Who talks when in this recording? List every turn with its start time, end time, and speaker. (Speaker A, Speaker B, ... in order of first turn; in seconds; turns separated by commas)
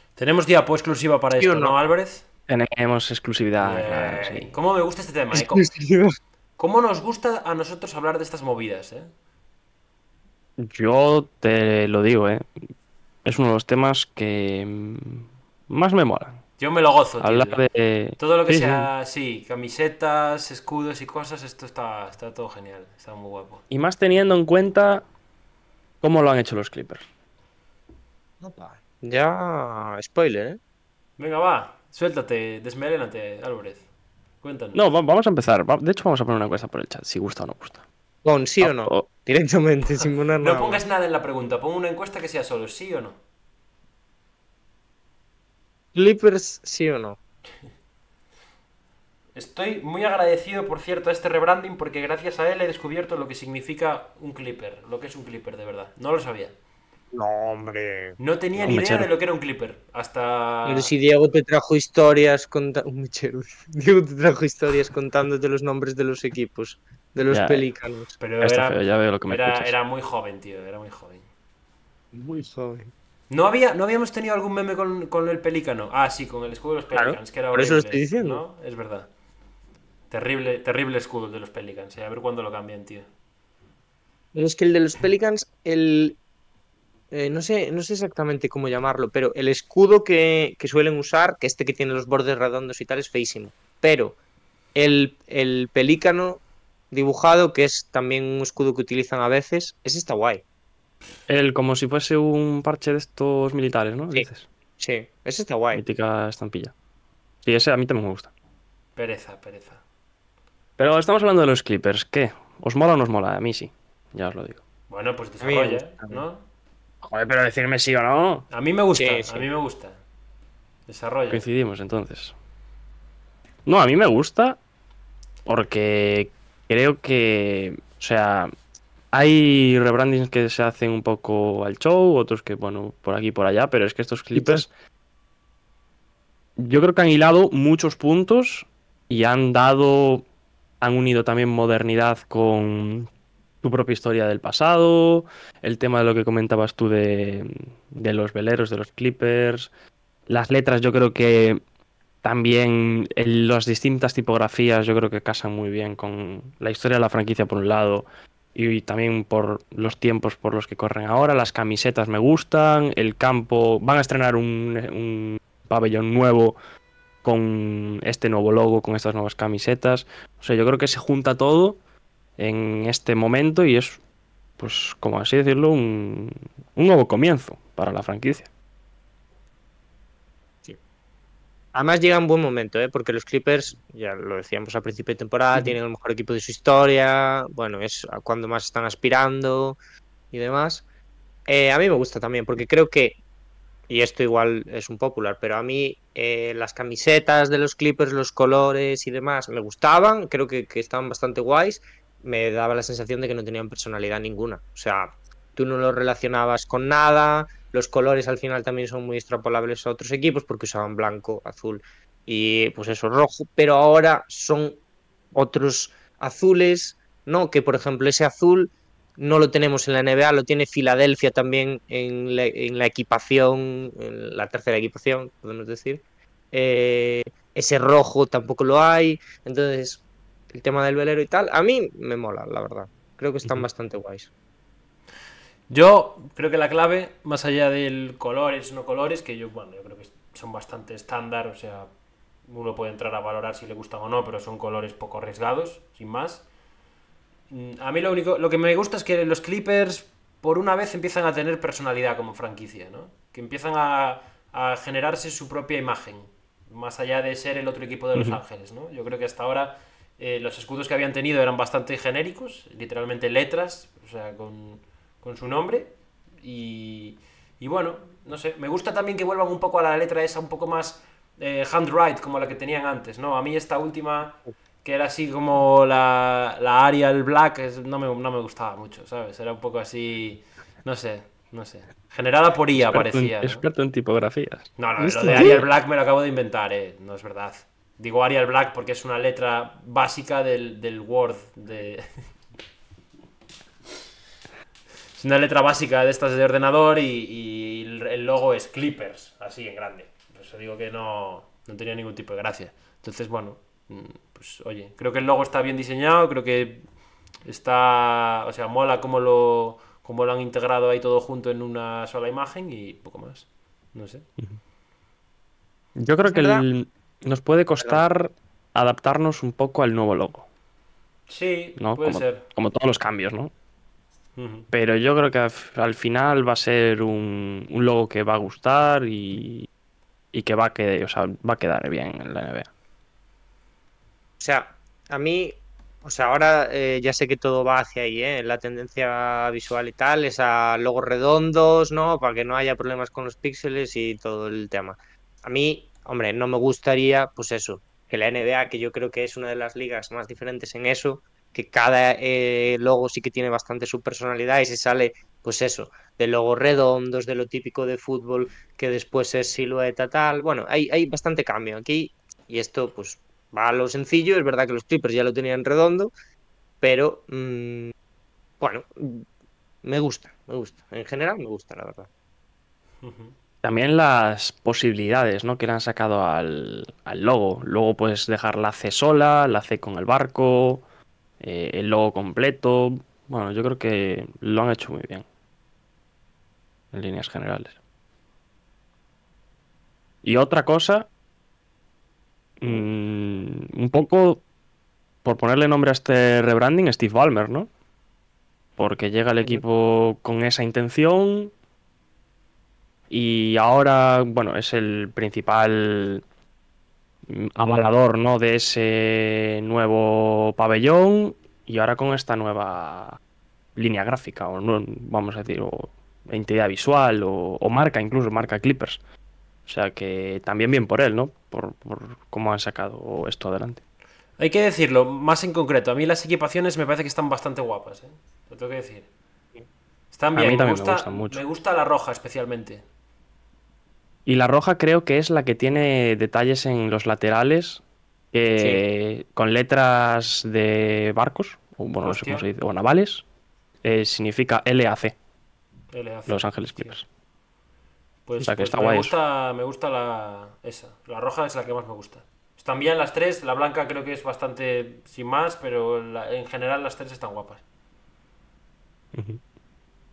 Speaker A: 0.2-2.2, Speaker B: 1.4-1.8, Speaker C: 2.5-4.5, Speaker A: 3.6-5.7, Speaker B: 5.3-6.2, Speaker A: 6.6-9.1, Speaker C: 10.6-12.4, Speaker C: 13.2-16.4, Speaker A: 16.6-17.6, Speaker C: 17.2-18.9, Speaker A: 18.2-23.6, Speaker C: 23.7-25.1, Speaker C: 26.0-27.0, Speaker B: 28.4-30.6, Speaker A: 31.2-33.8, Speaker A: 34.4-34.8, Speaker C: 34.7-37.8, Speaker B: 38.2-40.8, Speaker C: 38.6-39.1, Speaker A: 40.4-43.2, Speaker B: 45.9-47.2, Speaker A: 49.4-56.5, Speaker B: 57.1-58.2, Speaker A: 58.2-60.9, Speaker C: 58.6-59.1, Speaker B: 60.7-68.2, Speaker C: 67.3-67.7, Speaker A: 68.2-71.2, Speaker C: 68.4-69.7, Speaker B: 72.1-72.9, Speaker A: 73.3-79.1, Speaker B: 76.9-78.4, Speaker A: 80.1-83.1, Speaker B: 84.3-86.2, Speaker B: 87.1-94.2, Speaker B: 94.8-100.4, Speaker C: 101.3-104.5, Speaker B: 104.8-105.8, Speaker C: 105.7-106.7, Speaker C: 107.4-108.3, Speaker A: 109.0-109.8, Speaker C: 110.8-114.6, Speaker A: 114.9-116.4, Speaker B: 115.4-116.2, Speaker C: 117.0-118.5, Speaker A: 118.5-120.0, Speaker B: 119.0-119.5, Speaker A: 120.9-121.5, Speaker C: 121.3-122.3, Speaker C: 123.7-124.6, Speaker C: 125.5-128.5, Speaker C: 129.1-134.7, Speaker B: 134.3-134.6, Speaker C: 136.6-140.2, Speaker C: 140.8-143.1, Speaker C: 143.6-149.7, Speaker C: 150.3-151.6, Speaker C: 152.2-166.6, Speaker C: 167.2-171.8, Speaker C: 172.4-174.0, Speaker C: 174.6-178.5, Speaker B: 181.7-189.8, Speaker B: 190.3-190.8, Speaker B: 191.5-193.2, Speaker B: 193.9-214.8, Speaker B: 215.3-234.3, Speaker A: 235.7-241.9, Speaker A: 242.5-246.4, Speaker A: 247.5-283.6, Speaker C: 282.8-284.7, Speaker A: 284.8-292.1, Speaker B: 285.0-285.6, Speaker C: 285.3-285.6, Speaker A: 295.2-306.9, Speaker A: 307.4-314.3, Speaker C: 316.0-320.5, Speaker B: 316.2-316.6, Speaker A: 321.3-322.4, Speaker C: 321.8-323.5, Speaker A: 324.4-324.7, Speaker C: 324.7-329.7, Speaker C: 330.3-332.7, Speaker B: 334.4-366.1, Speaker B: 366.8-367.9, Speaker B: 368.6-369.2, Speaker B: 369.8-372.1, Speaker A: 373.0-373.3, Speaker C: 373.6-380.8, Speaker C: 381.4-385.2, Speaker C: 386.9-387.8, Speaker C: 390.2-391.1, Speaker C: 392.6-394.4, Speaker C: 395.2-397.7, Speaker C: 398.8-401.5, Speaker C: 403.1-406.2, Speaker C: 407.3-413.2, Speaker C: 413.8-419.0, Speaker C: 419.7-423.8, Speaker A: 424.4-429.1, Speaker A: 430.1-432.8, Speaker C: 430.4-431.4, Speaker C: 434.3-437.8, Speaker C: 438.3-443.2, Speaker A: 442.0-442.4, Speaker C: 443.8-445.1, Speaker A: 445.9-447.0, Speaker C: 446.3-447.1, Speaker A: 448.3-457.6, Speaker C: 448.4-449.1, Speaker C: 459.1-459.4